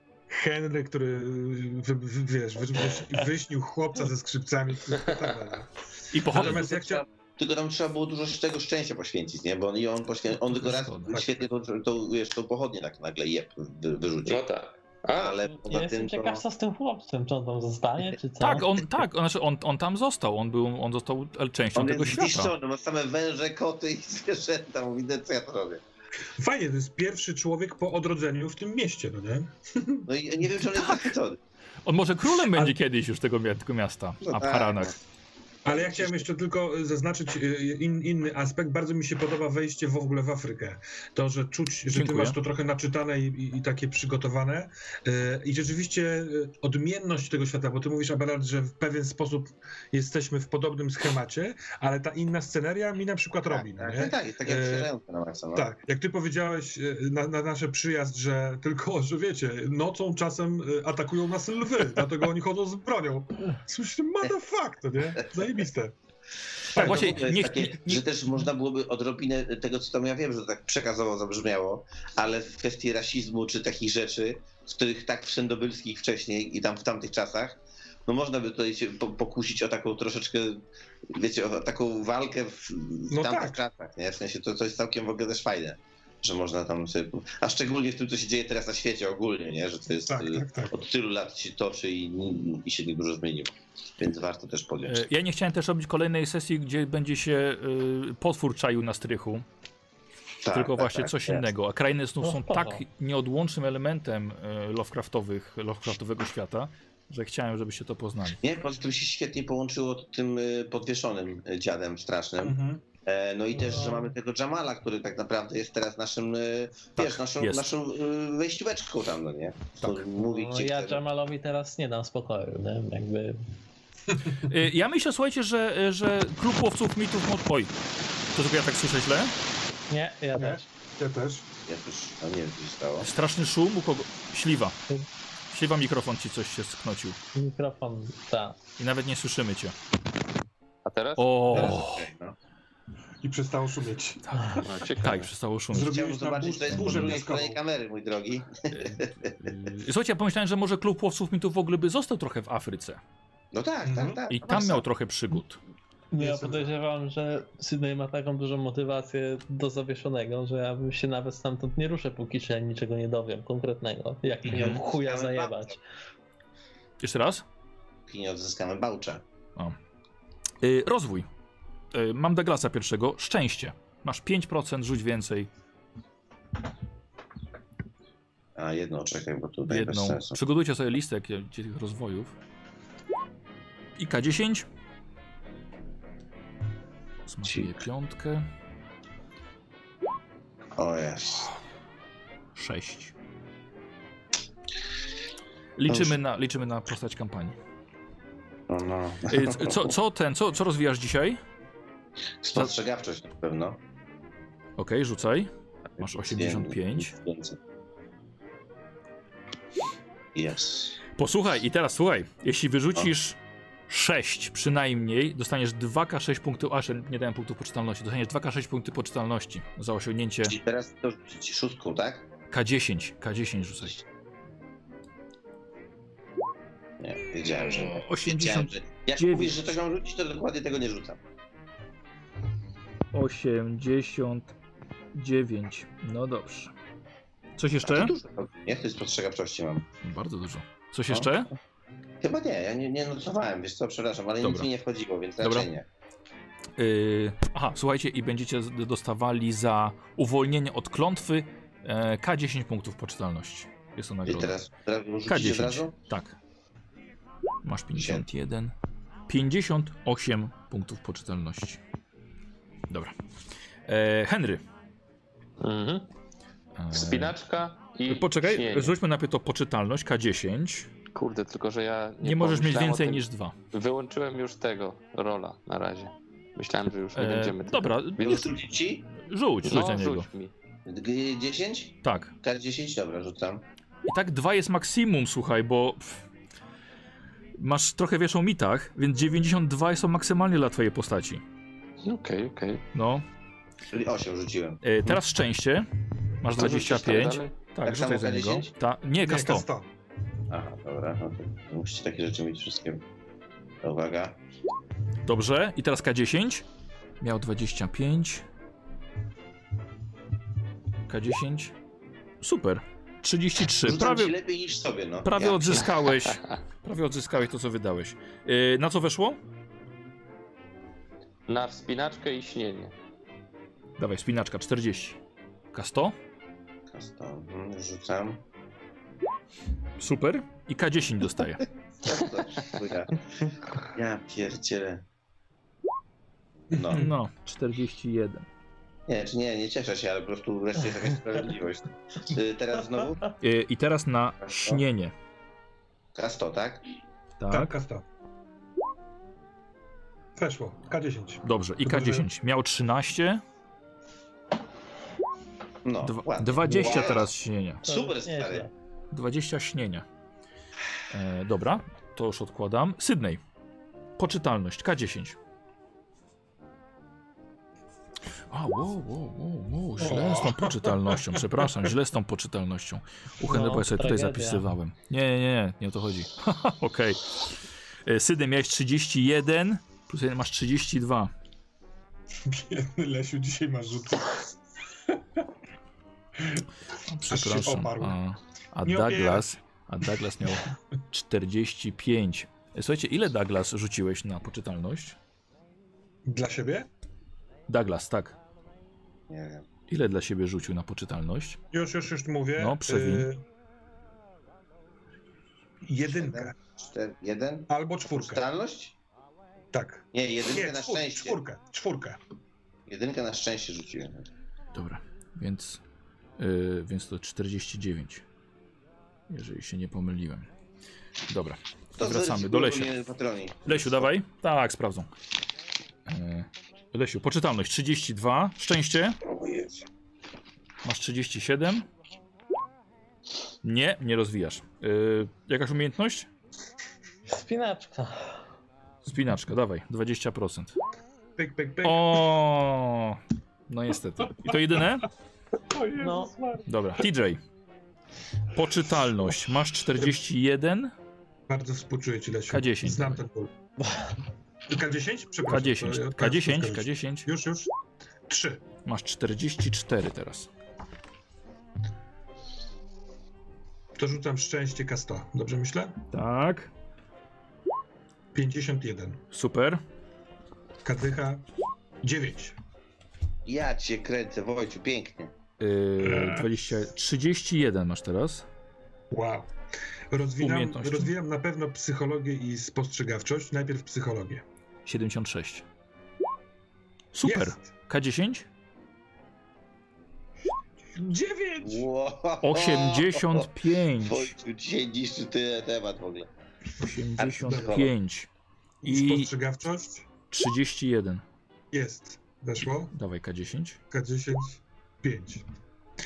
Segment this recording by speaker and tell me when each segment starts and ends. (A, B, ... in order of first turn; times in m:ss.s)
0:00.3-0:07.0 A
0:02.8-0:03.0 B
0:06.1-0:06.6 C
0:06.2-0:14.4 B
0:10.5-0:11.4 C
0:11.1-0:11.4 A
0:14.2-0:15.4 D
0:15.1-0:16.4 B
0:15.3-0:18.7 E
0:18.4-0:22.5 C
0:21.8-0:25.8 B
0:26.4-0:30.0 A
0:30.1-0:31.4 B
0:30.7-0:31.1 C
0:31.8-0:35.0 C
0:32.3-0:32.8 A
0:34.2-0:34.9 B
0:35.6-0:54.9 A
0:35.7-0:36.2 B
0:41.9-0:42.4 C
0:53.5-0:55.7 B
0:55.5-1:05.9 A
1:06.7-1:35.0 B
1:06.7-1:07.2 A
1:06.7-1:08.0 C
1:23.1-1:23.6 A
1:30.1-1:30.8 A
1:34.9-1:39.4 C
1:40.4-1:41.4 B
1:40.5-1:48.4 C
1:42.2-1:42.8 E
1:48.4-2:01.0 B
1:52.4-1:52.8 A
1:53.5-1:54.1 E
1:57.4-1:57.6 C
2:00.1-2:03.4 E
2:04.4-2:07.7 C
2:08.3-2:09.3 C
2:09.9-2:10.6 E
2:10.4-2:11.4 A
2:11.6-2:13.1 B
2:13.0-2:14.7 C
2:15.5-2:17.2 C
2:17.3-2:18.6 E
2:18.8-2:19.7 C
2:20.8-2:21.7 D
2:21.2-2:22.1 C
2:21.5-2:21.8 A
2:21.5-2:22.3 B
2:23.2-2:27.6 A
2:24.3-2:26.0 C
2:24.6-2:25.2 D
2:25.8-2:29.5 B
2:26.8-2:27.0 C
2:28.7-2:33.0 C
2:33.5-2:34.8 B
2:33.8-2:34.2 A
2:34.3-2:35.6 C
2:36.1-2:45.8 E
2:36.2-2:36.7 A
2:44.4-2:45.8 B
2:44.4-2:44.8 C
2:47.0-2:47.4 C
2:48.1-2:49.2 B
2:50.6-2:51.3 C
2:51.9-2:55.5 C
2:58.6-3:00.4 B
2:59.7-3:02.3 C
3:04.0-3:04.6 C
3:07.2-3:08.4 C
3:07.4-3:07.8 B
3:10.8-3:11.5 B
3:12.5-3:13.1 C
3:15.8-3:17.6 C
3:15.9-3:16.2 B
3:18.7-3:19.9 B
3:19.3-3:21.4 C
3:22.4-3:23.8 B
3:24.8-3:27.1 C
3:26.0-3:27.6 B
3:30.3-3:31.0 B
3:31.2-3:33.4 C
3:33.9-3:40.6 C
3:40.4-3:42.3 B
3:42.5-3:44.0 C
3:47.0-3:51.2 B
3:47.7-3:49.6 C
3:53.1-3:54.5 C
3:55.1-3:56.7 C
3:57.6-3:58.1 C
3:57.8-3:59.8 B
4:00.0-4:01.5 C
4:01.1-4:01.3 B
4:02.2-4:05.8 B
4:04.4-4:04.7 C
4:05.4-4:05.7 C
4:06.8-4:14.6 C
4:14.3-4:15.9 B
4:15.2-4:16.4 C
4:17.6-4:18.7 C
4:17.9-4:18.2 B
4:19.3-4:21.8 C
4:23.9-4:24.6 C
4:25.6-4:26.1 D
4:26.8-4:27.4 C
4:26.9-4:29.0 D
4:28.1-4:30.9 C
4:31.1-4:38.5 D
4:32.2-4:33.5 C
4:37.1-4:38.4 C
4:38.2-4:39.1 B
4:39.2-4:40.3 C
4:39.6-4:40.5 D
4:40.8-4:43.6 B
4:42.0-4:42.3 C
4:44.1-4:46.0 C
4:47.6-4:51.4 C
4:52.0-4:52.8 D
4:52.9-4:53.2 C
4:53.9-4:54.8 B
4:54.8-4:55.9 C
4:56.4-4:59.6 C
4:56.5-4:57.5 D
4:56.8-4:57.2 B
4:57.8-4:58.7 B
4:59.2-4:59.9 A
5:00.5-5:03.0 B
5:03.8-5:04.4 B
5:05.2-5:06.6 C
5:07.2-5:08.4 C
5:11.1-5:11.7 C
5:12.4-5:14.4 C
5:13.8-5:15.9 B
5:15.2-5:19.4 C
5:21.5-5:22.9 D
5:24.0-5:25.2 C
5:25.7-5:26.1 C
5:26.9-5:28.4 B
5:30.0-5:31.6 C
5:32.0-5:33.2 B
5:33.8-5:35.0 B
5:36.7-5:37.1 B
5:36.7-5:37.1 A
5:36.9-5:38.5 C
5:39.1-5:43.2 B
5:43.4-5:45.1 C
5:44.4-5:44.8 B
5:46.1-5:46.8 B
5:47.4-5:47.7 C
5:47.5-5:48.0 A
5:50.4-5:52.3 A
5:51.4-5:53.4 C
5:55.8-5:57.3 B
5:56.0-5:57.9 C
5:56.7-5:57.2 E
5:57.8-5:58.7 E
5:57.8-5:58.7 B
5:59.1-6:00.0 C
6:01.1-6:03.4 C
6:04.2-6:05.4 C
6:08.5-6:21.3 C
6:10.0-6:11.5 A
6:13.4-6:14.7 E
6:22.5-6:24.4 A
6:27.0-6:35.2 C
6:27.2-6:28.2 A
6:28.8-6:29.5 A
6:36.2-6:36.9 A
6:37.7-6:38.4 C
6:39.3-6:39.6 B
6:39.9-6:41.6 C
6:41.7-6:43.4 A
6:42.6-6:43.3 C
6:45.8-6:46.5 A
6:46.0-6:49.0 B
6:47.7-6:48.5 A
6:49.7-6:52.2 A
6:50.1-6:51.4 B
6:52.9-6:54.2 B
6:54.7-6:55.8 C
6:56.4-6:58.2 C
6:59.3-7:00.5 C
7:01.3-7:02.9 C
7:02.0-7:04.0 B
7:03.6-7:05.1 C
7:06.1-7:09.2 C
7:09.2-7:09.8 B
7:10.8-7:11.8 C
7:13.6-7:16.3 C
7:17.3-7:18.3 E
7:19.0-7:20.7 C
7:21.4-7:22.3 A
7:21.8-7:25.1 C
7:25.7-7:26.6 A
7:26.0-7:26.3 E
7:26.6-7:27.4 C
7:28.5-7:30.9 C
7:31.5-7:33.5 A
7:32.5-7:33.2 C
7:34.7-7:37.7 A
7:35.5-7:37.3 C
7:38.3-7:38.6 A
7:38.8-7:40.5 C
7:44.0-7:45.9 A
7:46.1-7:46.7 C
7:48.3-7:49.2 A
7:49.3-7:49.8 C
7:50.8-7:51.4 A
7:52.0-7:52.6 A
7:53.4-7:55.3 B
7:55.6-7:58.4 C
7:56.0-7:56.5 A
7:59.1-7:59.5 A
8:00.1-8:04.4 A
8:00.4-8:01.1 C
8:04.8-8:05.6 C
8:07.1-8:08.4 C
8:07.2-8:07.7 A
8:10.9-8:11.9 A
8:11.6-8:13.5 B
8:12.4-8:14.3 C
8:14.0-8:16.3 B
8:16.8-8:18.3 C
8:17.2-8:17.9 B
8:17.4-8:17.9 A
8:18.8-8:20.0 A
8:18.8-8:19.3 C
8:20.3-8:21.2 C
8:21.7-8:22.9 A
8:22.9-8:23.8 C
8:23.9-8:25.4 A